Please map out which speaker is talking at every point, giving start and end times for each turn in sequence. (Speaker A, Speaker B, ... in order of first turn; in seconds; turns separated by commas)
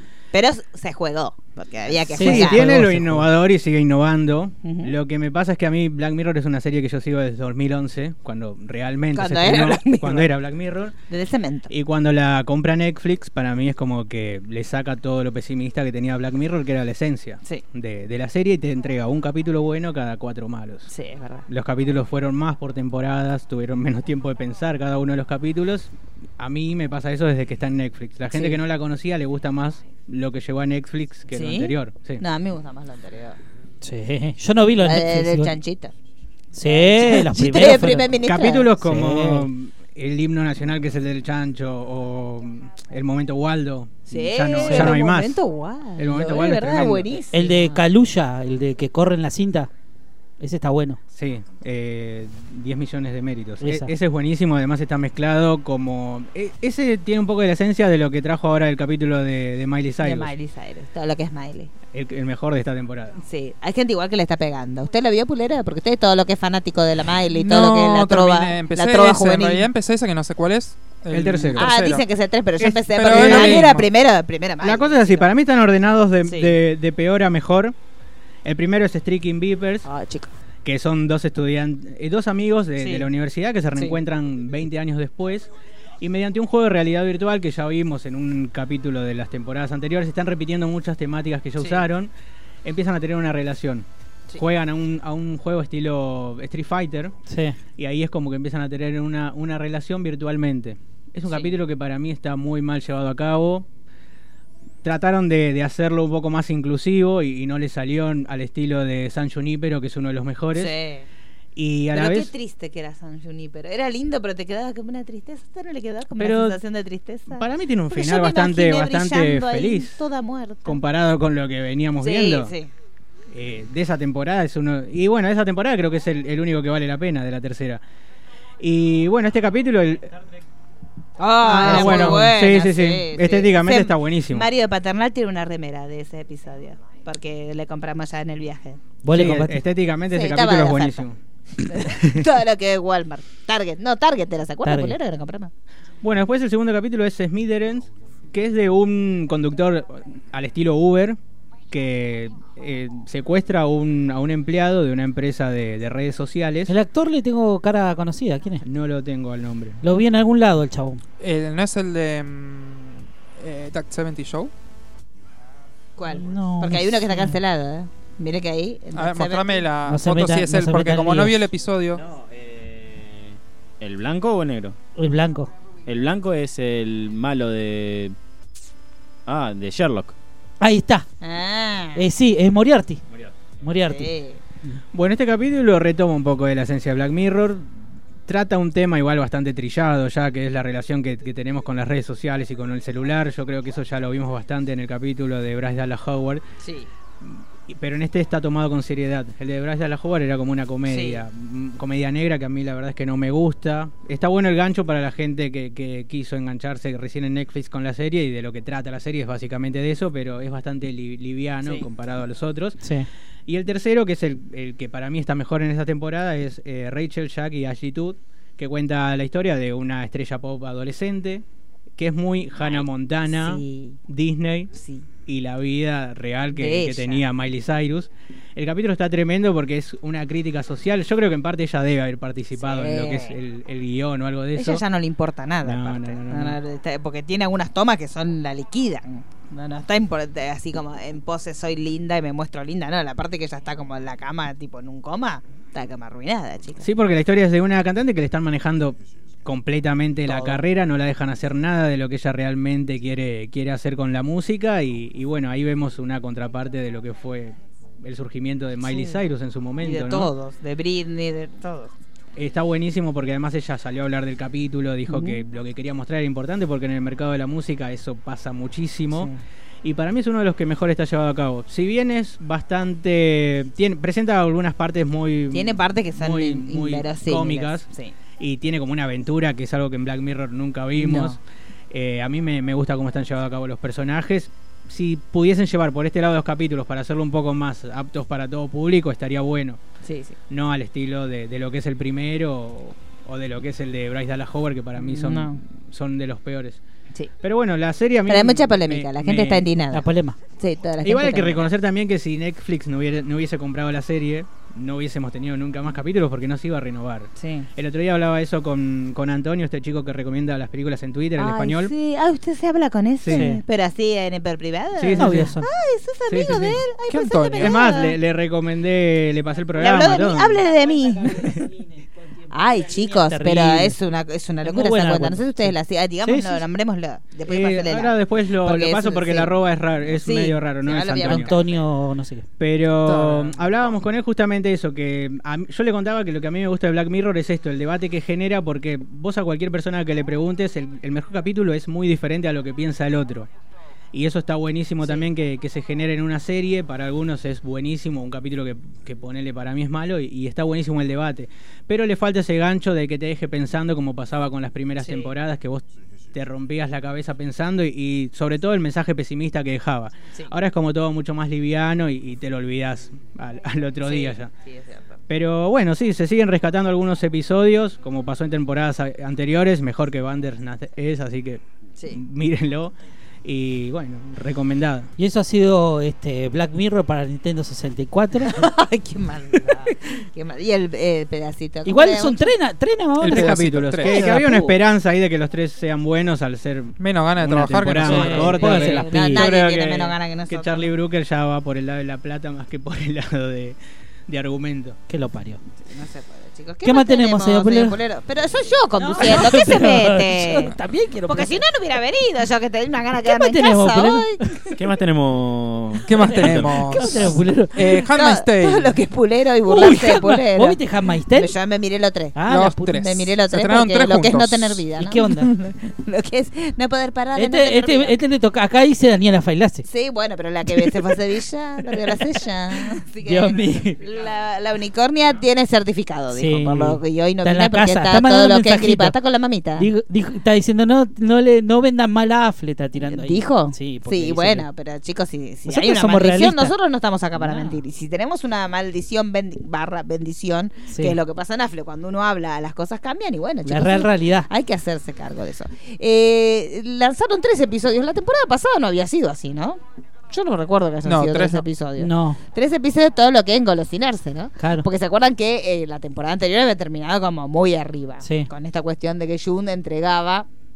Speaker A: 0.3-2.6, Speaker B: 2.1-3.3, Speaker C: 2.2-10.9, Speaker A: 4.6-4.9, Speaker A: 9.1-10.3, Speaker A: 11.1-11.7, Speaker C: 11.7-20.9, Speaker A: 20.9-21.5, Speaker C: 21.5-32.2, Speaker A: 28.3-28.6, Speaker A: 31.3-33.4, Speaker B: 33.8-35.5, Speaker A: 34.8-35.9, Speaker B: 36.5-38.2, Speaker A: 36.6-38.7, Speaker C: 37.5-45.4, Speaker B: 38.8-39.5, Speaker A: 44.1-47.8, Speaker B: 44.6-44.9, Speaker C: 46.0-47.1, Speaker B: 47.3-49.7, Speaker B: 50.4-51.0, Speaker C: 51.1-60.3, Speaker B: 53.6-53.9, Speaker A: 60.0-61.7, Speaker C: 61.9-63.2, Speaker A: 63.2-69.7, Speaker D: 67.3-72.0, Speaker C: 71.1-72.0, Speaker A: 71.5-75.3, Speaker D: 72.7-73.9, Speaker C: 73.0-73.7, Speaker C: 74.6-77.7, Speaker A: 76.3-76.5, Speaker C: 78.5-79.9, Speaker A: 79.8-80.3, Speaker C: 80.7-92.1, Speaker A: 82.8-83.1, Speaker A: 91.6-91.8, Speaker C: 92.7-97.2, Speaker B: 97.3-97.6, Speaker C: 97.8-103.7, Speaker A: 101.3-101.5, Speaker C: 104.8-110.8, Speaker A: 110.5-111.1, Speaker C: 111.6-112.3, Speaker A: 111.9-120.8, Speaker C: 116.2-116.6, Speaker C: 117.3-120.0, Speaker C: 120.7-122.5, Speaker A: 122.0-122.7, Speaker C: 123.3-127.8, Speaker C: 128.6-130.2, Speaker A: 131.2-138.9, Speaker C: 131.4-134.5, Speaker B: 139.0-139.6, Speaker C: 139.1-141.2, Speaker A: 140.1-141.1, Speaker A: 141.7-145.5, Speaker C: 141.9-142.2, Speaker B: 144.7-145.0, Speaker C: 146.0-151.2, Speaker C: 151.7-156.7, Speaker B: 156.7-158.6, Speaker C: 158.6-159.8, Speaker B: 159.8-161.0, Speaker D: 161.2-164.5, Speaker A: 166.0-169.7, Speaker B: 166.2-167.4, Speaker D: 168.9-172.0, Speaker B: 169.9-171.4, Speaker E: 172.0-174.8, Speaker B: 175.0-175.5, Speaker E: 175.9-178.2, Speaker E: 179.3-180.1, Speaker B: 180.6-181.1, Speaker A: 181.2-182.1, Speaker B: 182.0-183.0, Speaker B: 183.6-184.1, Speaker A: 183.9-184.4, Speaker C: 184.9-187.7, Speaker C: 188.3-196.4, Speaker A: 196.6-196.9, Speaker C: 197.2-212.8, Speaker A: 200.9-201.2, Speaker B: 212.8-213.1, Speaker C: 213.5-221.4, Speaker C: 222.0-224.7, Speaker A: 222.6-224.0, Speaker A: 224.7-225.1, Speaker C: 225.3-234.8, Speaker A: 226.5-227.2, Speaker A: 232.6-233.4, Speaker A: 234.6-246.9, Speaker C: 235.6-236.6, Speaker C: 246.8-260.3, Speaker A: 250.3-250.6, Speaker A: 258.8-259.2, Speaker A: 259.8-261.9, Speaker C: 262.4-269.3, Speaker A: 265.1-265.4, Speaker A: 269.1-269.4, Speaker C: 269.8-277.9, Speaker A: 275.5-278.1, Speaker C: 278.4-281.4, Speaker A: 281.0-281.4, Speaker C: 281.9-289.8, Speaker A: 290.0-290.4, Speaker C: 290.5-296.8, Speaker A: 295.0-295.6, Speaker C: 297.4-299.7, Speaker A: 298.3-300.1, Speaker B: 299.9-300.4, Speaker A: 300.6-301.7, Speaker C: 301.0-311.9, Speaker A: 307.4-307.7, Speaker A: 311.4-318.2, Speaker C: 313.2-313.5, Speaker B: 313.3-313.6, Speaker C: 315.0-315.5, Speaker B: 315.2-315.7, Speaker C: 316.3-316.8, Speaker D: 317.1-318.0, Speaker C: 317.6-320.6, Speaker A: 319.8-321.6, Speaker A: 322.5-329.5, Speaker B: 322.9-324.0, Speaker B: 324.6-325.7, Speaker B: 326.2-326.6, Speaker C: 327.5-331.6, Speaker A: 330.0-331.8, Speaker B: 331.2-332.5, Speaker C: 332.6-343.5, Speaker C: 344.1-364.5, Speaker A: 355.0-355.3, Speaker A: 364.0-365.2, Speaker C: 365.3-375.1, Speaker B: 375.2-378.6, Speaker A: 378.5-382.5, Speaker B: 381.9-384.8, Speaker D: 383.2-384.4, Speaker C: 383.3-395.0, Speaker D: 387.0-388.6, Speaker B: 388.0-389.5, Speaker A: 388.2-390.9, Speaker B: 395.1-395.6, Speaker A: 395.9-400.8, Speaker B: 396.8-398.0, Speaker B: 399.0-401.7, Speaker A: 401.3-404.8, Speaker B: 403.2-404.3, Speaker E: 404.8-406.8, Speaker D: 406.1-409.0, Speaker B: 406.2-408.0, Speaker A: 406.9-407.4, Speaker A: 408.1-410.8, Speaker B: 409.7-411.5, Speaker A: 411.3-412.4, Speaker B: 412.4-413.0, Speaker D: 412.5-414.8, Speaker A: 412.9-418.2, Speaker B: 415.0-415.5, Speaker B: 417.4-419.9, Speaker A: 419.9-429.9, Speaker B: 423.2-424.0, Speaker B: 426.3-429.2, Speaker B: 429.8-434.7, Speaker A: 433.0-449.8, Speaker B: 435.7-436.7, Speaker B: 437.4-437.8, Speaker B: 440.9-441.2, Speaker B: 443.6-444.5, Speaker A: 450.3-460.5, Speaker D: 451.1-451.7, Speaker B: 452.0-452.4, Speaker B: 454.6-454.9, Speaker B: 458.2-458.5